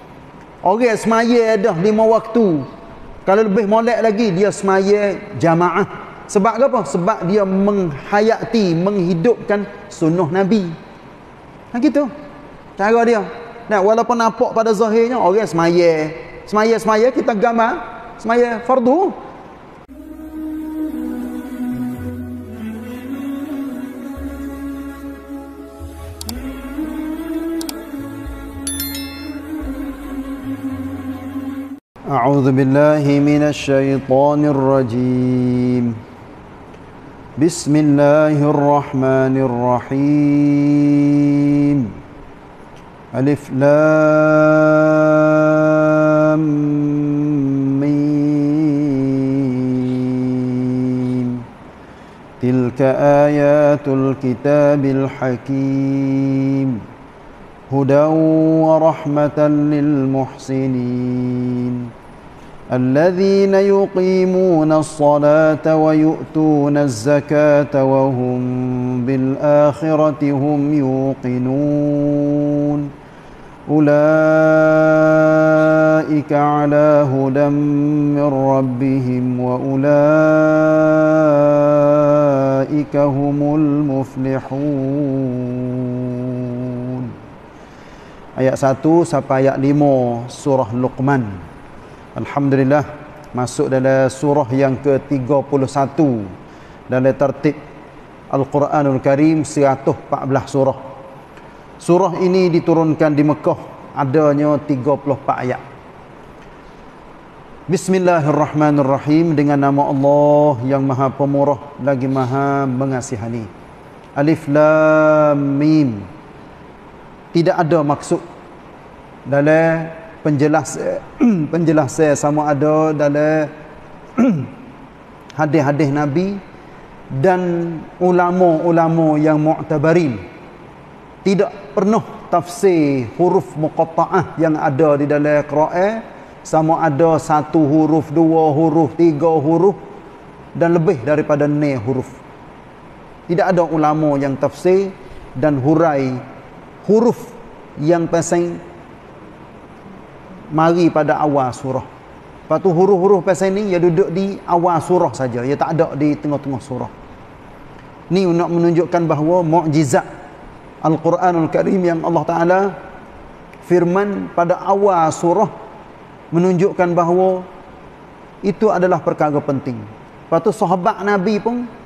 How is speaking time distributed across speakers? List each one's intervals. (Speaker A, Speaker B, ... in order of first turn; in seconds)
Speaker A: 0.6-2.7, 3.2-10.7, 11.7-12.1, 12.8-19.1, 32.1-36.0, 37.4-41.9, 43.1-51.4, 52.4-56.8, 57.7-61.9, 62.7-72.9, 73.7-87.1, 88.4-91.4, 92.1-96.3, 96.9-97.6, 98.3-100.8, 101.8-105.6, 107.7-113.5, 114.2-116.1, 117.3-118.2, 119.2-123.5, 124.2-124.5, 125.3-126.4, 127.1-130.2, 131.2-139.8, 140.5-142.1, 143.3-146.2, 146.8-148.6, 150.5-151.9, 152.5-156.9, 158.1-160.1, 160.8-162.7, 163.6-165.5, 166.3-167.4, 168.4-171.7